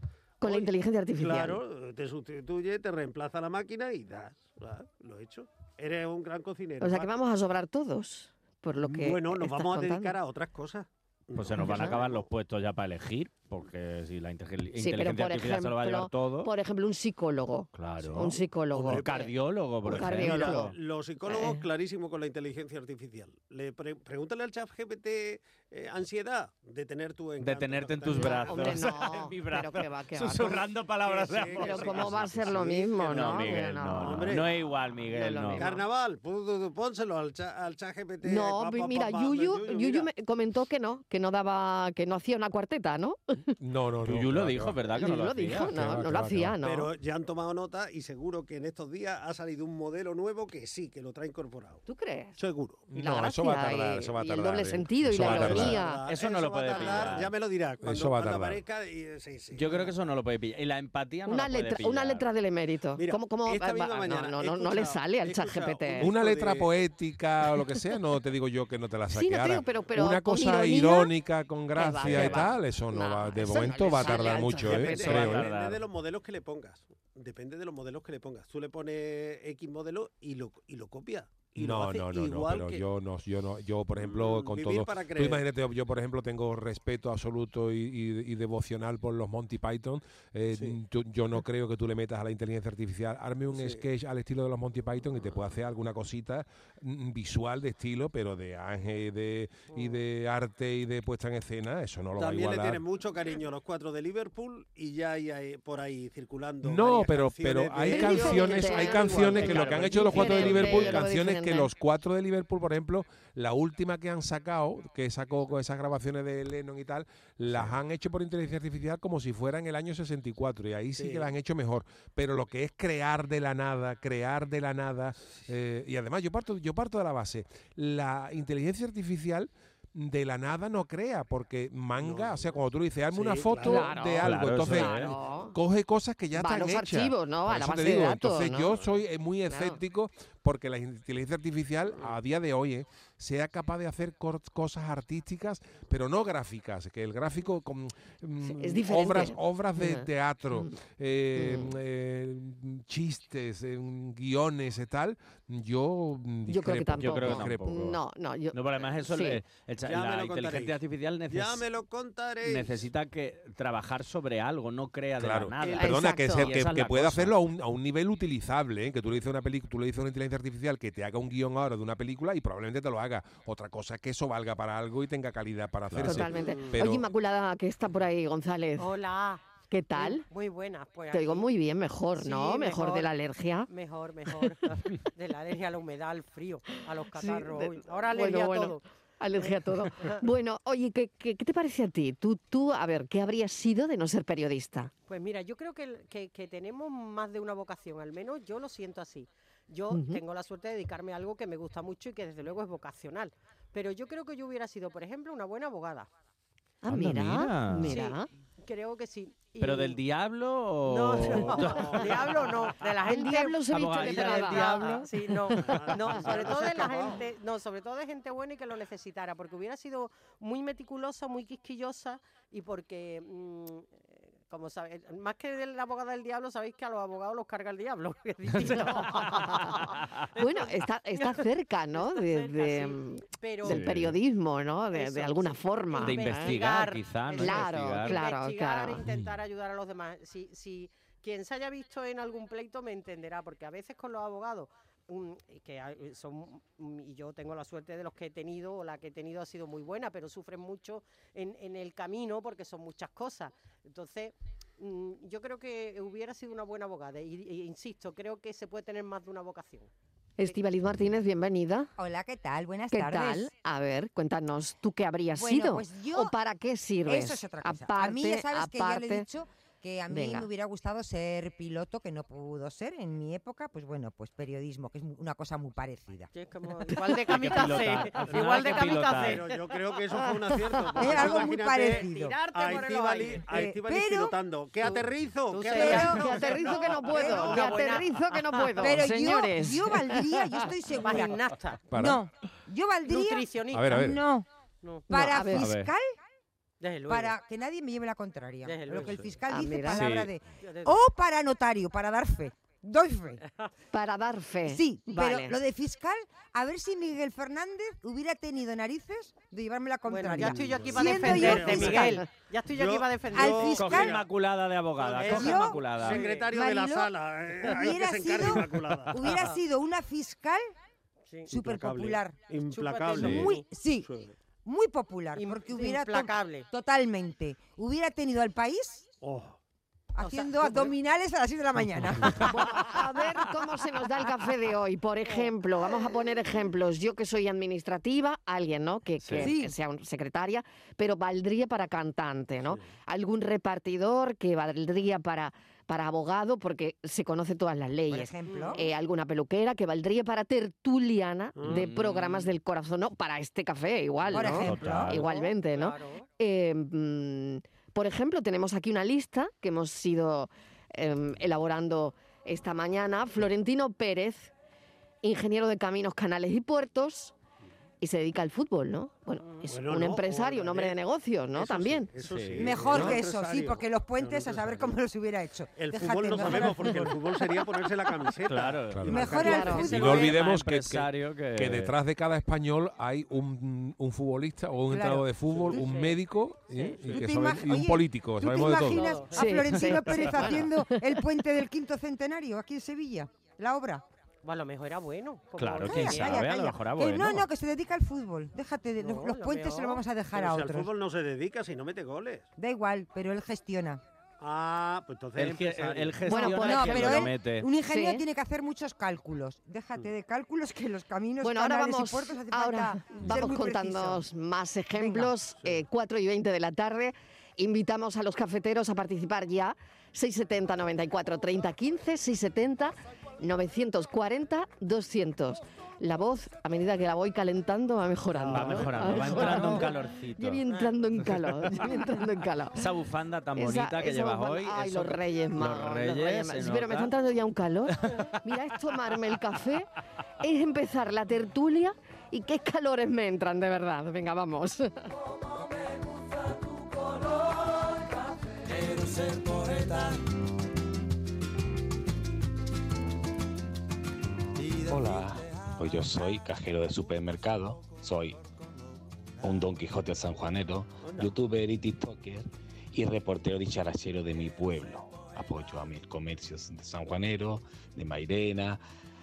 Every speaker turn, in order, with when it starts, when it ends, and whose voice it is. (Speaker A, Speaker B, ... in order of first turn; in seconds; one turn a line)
Speaker A: 0.4-1.6
Speaker B: 0.4-7.1
Speaker A: 6.8-10.2
Speaker B: 8.8-12.3
Speaker C: 11.4-16.5
Speaker A: 11.6-12.0
Speaker A: 14.8-19.3
Speaker C: 17.8-20.8
Speaker B: 18.0-19.2
Speaker B: 19.8-28.9
Speaker A: 19.9-20.7
Speaker A: 21.2-21.6
Speaker C: 27.4-35.7
Speaker A: 28.1-30.6
Speaker B: 31.0-34.5
Speaker A: 31.6-34.5
Speaker A: 35.1-35.8
Speaker B: 35.6-40.1
Speaker A: 38.2-43.5
Speaker D: 43.6-44.8
Speaker C: 44.0-45.8
Speaker A: 45.0-46.9
Speaker D: 45.7-46.6
Speaker B: 46.6-51.8
Speaker A: 51.9-52.4
Speaker B: 52.4-52.9
Speaker D: 52.9-55.8
Speaker A: 52.9-56.0
Speaker B: 55.2-60.0
Speaker C: 55.2-57.3
Speaker A: 56.7-57.2
Speaker D: 57.8-58.6
Speaker C: 59.5-62.2
Speaker A: 61.3-66.1
Speaker B: 63.0-66.7
Speaker D: 66.0-75.5
Speaker A: 69.1-71.1
Speaker A: 71.8-75.4
Speaker B: 72.0-72.4
Speaker B: 74.0-82.8
Speaker C: 74.7-75.8
Speaker D: 81.6-102.8
Speaker B: 84.0-85.5
Speaker B: 90.5-90.8
Speaker B: 93.5-93.8
Speaker B: 102.2-110.9
Speaker D: 106.6-157.8
Speaker A: 107.9-111.7
Speaker C: 109.3-111.1
Speaker B: 117.5-117.8
Speaker B: 121.0-121.3
Speaker B: 132.0-133.9
Speaker A: 133.6-135.6
Speaker C: 134.2-135.1
Speaker A: 136.3-138.8
Speaker A: 139.5-139.8
Speaker B: 141.9-142.2
Speaker A: 148.4-150.8
Speaker A: 151.4-151.8
Speaker A: 156.5-159.4
Speaker C: 157.0-158.0
Speaker C: 158.5-161.7
Speaker B: 159.8-160.8
Speaker B: 161.3-162.9
Speaker C: 162.4-167.3
Speaker D: 165.2-177.1
Speaker A: 165.8-166.5
Speaker A: 176.0-178.9
Speaker E: 178.8-179.4
Speaker A: 179.7-180.2
Speaker E: 179.9-181.5
Speaker A: 181.1-183.7
Speaker E: 182.2-183.1
Speaker E: 183.7-188.8
Speaker A: 187.2-194.9
Speaker E: 189.4-190.2
Speaker E: 195.1-206.1
Speaker A: 199.9-200.2
Speaker A: 206.8-208.3
Speaker C: 206.9-208.0
Speaker E: 207.8-210.0
Speaker C: 209.6-212.7
Speaker E: 210.9-233.9
Speaker B: 211.4-212.0
Speaker A: 213.0-215.8
Speaker C: 213.7-215.1
Speaker B: 215.6-217.3
Speaker C: 228.5-229.6
Speaker A: 228.7-229.8
Speaker A: 230.4-236.6
Speaker C: 233.7-234.2
Speaker E: 234.9-259.9
Speaker C: 236.0-238.2
Speaker A: 237.4-239.0
Speaker D: 239.1-239.3
Speaker A: 260.4-261.9
Speaker F: 262.0-263.5
Speaker A: 262.9-269.3
Speaker F: 265.4-266.3
Speaker F: 267.1-276.3
Speaker A: 270.1-270.5
Speaker E: 276.3-279.7
Speaker C: 277.1-279.5
Speaker B: 278.9-287.7
Speaker A: 280.5-280.8
Speaker F: 281.0-282.4
Speaker E: 281.0-283.6
Speaker F: 283.5-284.4
Speaker E: 285.5-289.0
Speaker F: 285.7-286.2
Speaker A: 285.8-290.6
Speaker F: 287.0-287.6
Speaker F: 288.8-294.5
Speaker E: 291.0-291.9
Speaker D: 291.9-292.2
Speaker E: 293.1-294.1
Speaker D: 293.7-294.2
Speaker E: 294.8-295.1
Speaker F: 295.1-296.1
Speaker A: 295.1-295.7
Speaker C: 295.6-295.9
Speaker E: 296.8-297.4
Speaker F: 297.1-303.4
Speaker E: 298.6-299.9
Speaker A: 299.5-300.0
Speaker C: 299.9-300.3
Speaker E: 300.6-301.0
Speaker E: 303.4-303.7
Speaker A: 303.9-305.6
Speaker F: 304.7-312.1
Speaker E: 310.1-314.1
Speaker B: 310.5-314.3
Speaker F: 313.3-314.2
Speaker C: 313.8-316.3
Speaker B: 314.9-319.5
Speaker E: 315.2-316.5
Speaker F: 315.3-315.8
Speaker F: 316.5-320.7
Speaker E: 319.3-319.6
Speaker F: 321.5-322.4
Speaker B: 321.5-324.3
Speaker E: 322.7-323.6
Speaker C: 323.1-323.5
Speaker F: 323.1-324.1
Speaker F: 324.6-329.1
Speaker E: 325.4-326.7
Speaker B: 329.2-329.6
Speaker F: 330.1-332.6
Speaker E: 330.2-330.9
Speaker A: 332.4-364.5
Speaker E: 335.3-335.5
Speaker C: 339.2-339.5
Speaker F: 339.4-339.7
Speaker F: 348.1-348.8
Speaker E: 348.5-348.9
Speaker B: 351.6-351.9
Speaker C: 351.6-352.5
Speaker F: 354.3-355.1
Speaker C: 354.4-355.2
Speaker E: 355.1-356.3
Speaker A: 365.2-367.3
Speaker A: 368.0-372.1
Speaker E: 369.4-369.7
Speaker B: 369.7-371.0
Speaker B: 371.5-375.0
Speaker C: 372.2-372.9
Speaker F: 372.6-377.2
Speaker B: 375.8-380.1
Speaker C: 378.4-381.9
Speaker D: 378.9-389.2
Speaker F: 379.1-380.4
Speaker A: 379.4-379.9
Speaker F: 384.9-385.8
Speaker B: 385.4-385.8
Speaker E: 385.7-387.2
Speaker F: 387.1-394.0
Speaker E: 388.7-389.7
Speaker A: 389.3-391.2
Speaker E: 390.2-390.7
Speaker E: 394.4-396.5
Speaker C: 395.6-397.5
Speaker F: 395.9-400.9
Speaker E: 399.0-400.1
Speaker B: 400.3-402.5
Speaker F: 402.6-404.0
Speaker B: 404.4-406.5
Speaker C: 405.4-407.7
Speaker A: 406.3-407.3
Speaker F: 406.6-414.2
Speaker A: 407.9-408.2
Speaker A: 411.4-432.8
Speaker F: 415.0-415.3
Speaker C: 428.5-430.6
Speaker C: 432.8-437.1
Speaker A: 433.6-439.9
Speaker C: 438.0-438.3
Speaker A: 440.4-444.9
Speaker G: 454.9-458.4
Speaker G: 459.4-468.8
Speaker B: 461.0-461.3